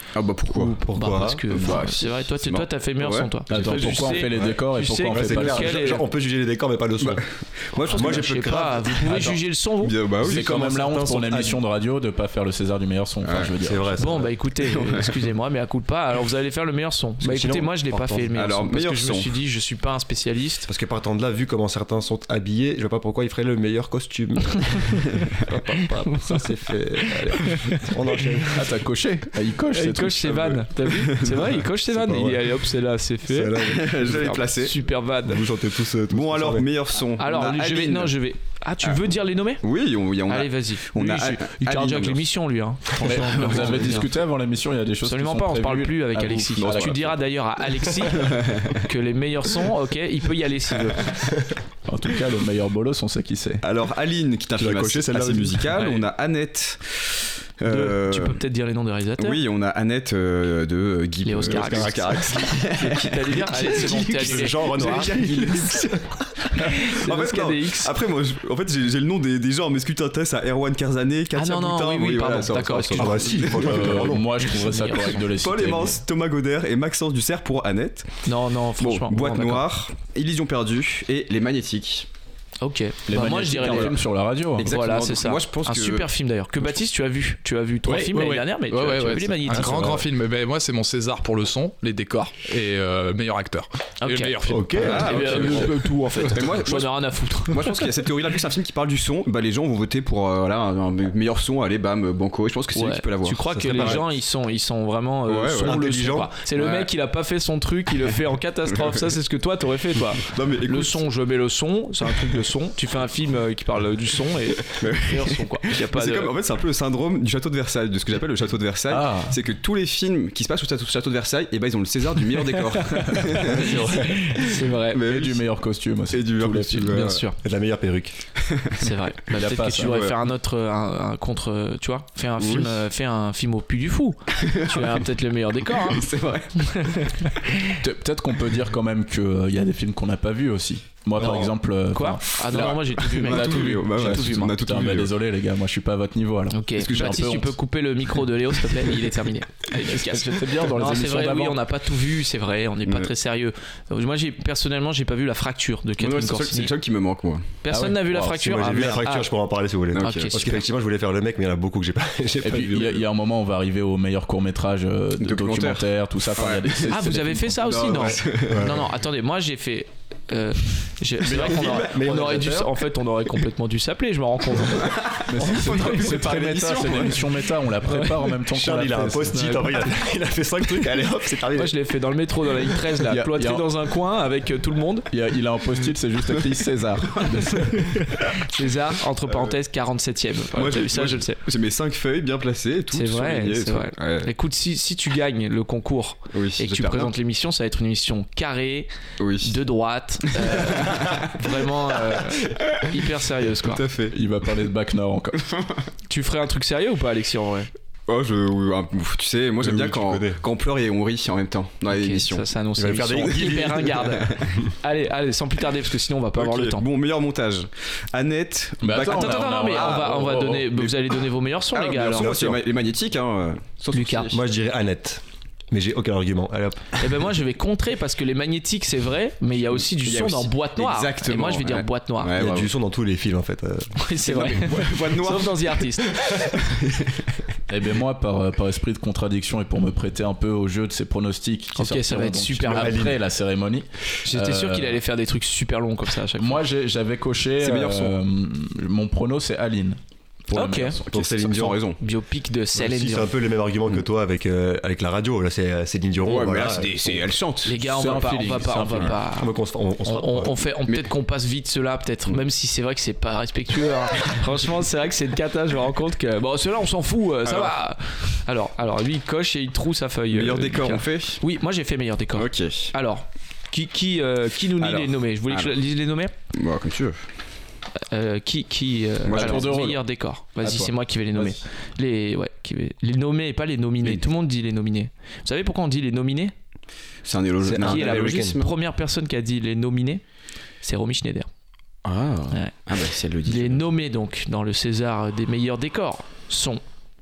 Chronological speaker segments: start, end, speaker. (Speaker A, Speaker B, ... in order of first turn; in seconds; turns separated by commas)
Speaker A: 0.1-0.8, Speaker B: 0.5-6.0, Speaker C: 0.5-1.4, Speaker A: 1.5-3.7, Speaker D: 3.5-5.8, Speaker C: 4.2-9.4, Speaker A: 7.8-8.2, Speaker B: 7.9-9.9, Speaker A: 9.8-10.5, Speaker C: 10.2-11.6, Speaker D: 10.2-14.1, Speaker A: 13.2-13.5, Speaker C: 13.6-14.3, Speaker B: 14.0-20.7, Speaker A: 14.6-15.2, Speaker C: 17.2-18.3, Speaker A: 18.3-19.3, Speaker C: 20.7-28.7, Speaker B: 26.1-26.5, Speaker B: 27.1-27.9, Speaker D: 28.5-30.4, Speaker B: 29.7-35.5, Speaker A: 30.2-31.6, Speaker C: 31.9-32.5, Speaker C: 33.3-34.3, Speaker A: 33.6-34.8, Speaker C: 35.2-36.7, Speaker A: 36.1-38.1, Speaker B: 37.2-39.6, Speaker A: 39.6-42.2, Speaker B: 40.3-44.1, Speaker D: 43.0-47.0, Speaker A: 43.1-43.9, Speaker B: 45.0-51.3, Speaker A: 46.6-47.1, Speaker A: 48.0-48.8, Speaker D: 51.9-53.6, Speaker A: 53.6-58.4, Speaker D: 54.6-55.4, Speaker B: 55.7-56.0, Speaker B: 57.6-59.4, Speaker A: 59.2-74.0, Speaker B: 61.2-65.8, Speaker C: 61.5-62.5, Speaker C: 63.5-66.0, Speaker B: 66.5-67.9, Speaker B: 71.3-73.7, Speaker C: 72.9-74.3, Speaker D: 73.5-76.0, Speaker B: 74.4-75.1, Speaker A: 74.9-78.3, Speaker B: 78.2-79.6, Speaker A: 78.8-82.1, Speaker B: 82.6-83.9, Speaker D: 83.1-84.7, Speaker A: 83.6-83.9, Speaker A: 84.6-86.1, Speaker B: 84.6-90.0, Speaker E: 87.8-96.4, Speaker C: 89.6-90.0, Speaker B: 94.0-97.9, Speaker C: 94.5-95.6, Speaker A: 94.8-104.0, Speaker B: 102.7-116.3, Speaker C: 103.5-104.0, Speaker A: 105.3-105.8, Speaker C: 105.6-106.3, Speaker A: 106.5-106.9, Speaker A: 110.2-111.0, Speaker A: 114.8-125.4, Speaker D: 118.9-119.4, Speaker B: 122.9-125.0, Speaker C: 123.5-124.2, Speaker D: 125.0-127.0, Speaker A: 126.1-127.2, Speaker B: 126.9-127.4, Speaker C: 127.4-128.2, Speaker A: 128.4-128.8, Speaker B: 128.8-137.7, Speaker D: 129.3-130.0, Speaker A: 129.8-130.1, Speaker A: 132.4-132.8, Speaker A: 134.4-135.0, Speaker A: 135.8-137.1, Speaker D: 137.8-147.6, Speaker B: 141.9-144.6, Speaker A: 142.5-145.1, Speaker B: 146.5-156.7, Speaker A: 146.8-147.2, Speaker D: 149.7-151.6, Speaker A: 152.8-153.1, Speaker A: 156.0-157.4, Speaker B: 157.6-159.3, Speaker D: 157.7-158.7, Speaker C: 158.4-163.0, Speaker A: 159.9-160.6, Speaker B: 159.9-160.6, Speaker D: 162.4-167.5, Speaker A: 165.2-167.0, Speaker B: 166.9-176.1, Speaker A: 167.6-168.8, Speaker C: 168.5-168.8, Speaker C: 171.2-172.7, Speaker D: 171.3-172.4, Speaker A: 174.6-177.3, Speaker D: 175.3-179.6, Speaker B: 177.9-178.3, Speaker C: 178.5-181.8, Speaker B: 179.3-180.0, Speaker B: 181.5-185.1, Speaker D: 183.1-183.7, Speaker D: 185.1-188.1, Speaker B: 187.6-191.4, Speaker A: 190.5-194.3, Speaker B: 192.9-198.9, Speaker A: 196.3-197.1, Speaker A: 199.2-199.6, Speaker B: 199.4-203.8, Speaker A: 200.3-201.4, Speaker A: 203.6-204.2, Speaker D: 204.1-205.5, Speaker A: 205.4-205.8, Speaker B: 206.1-207.7, Speaker A: 208.1-212.4, Speaker C: 209.6-210.4, Speaker B: 211.9-216.8, Speaker C: 212.8-214.5, Speaker A: 213.1-213.7, Speaker A: 216.3-220.9, Speaker D: 218.8-220.8, Speaker B: 219.0-222.5, Speaker A: 221.7-224.4, Speaker C: 222.1-222.6, Speaker B: 223.9-224.3, Speaker C: 224.3-226.8, Speaker B: 227.0-232.3, Speaker A: 230.0-232.7, Speaker C: 232.3-233.9, Speaker B: 233.9-236.2, Speaker A: 234.2-237.4, Speaker D: 237.7-245.0, Speaker B: 241.7-243.1, Speaker C: 242.7-243.1, Speaker B: 244.2-246.6, Speaker D: 246.3-251.2, Speaker A: 247.6-248.1, Speaker B: 250.5-251.0, Speaker C: 251.1-251.8, Speaker A: 251.1-252.0, Speaker B: 252.0-253.3, Speaker C: 252.7-257.3, Speaker A: 256.2-257.7, Speaker B: 257.6-259.5, Speaker D: 257.8-259.2, Speaker C: 259.4-260.5, Speaker B: 260.0-276.3, Speaker A: 267.4-267.7, Speaker A: 270.3-271.4, Speaker A: 272.3-272.9, Speaker A: 274.8-275.7, Speaker A: 276.5-277.2, Speaker B: 278.1-286.5, Speaker A: 279.2-279.9, Speaker D: 279.3-280.0, Speaker D: 280.6-281.6, Speaker A: 287.2-288.7, Speaker C: 287.6-288.6, Speaker B: 287.8-290.2, Speaker B: 290.8-291.5, Speaker A: 292.0-293.9, Speaker B: 293.4-296.8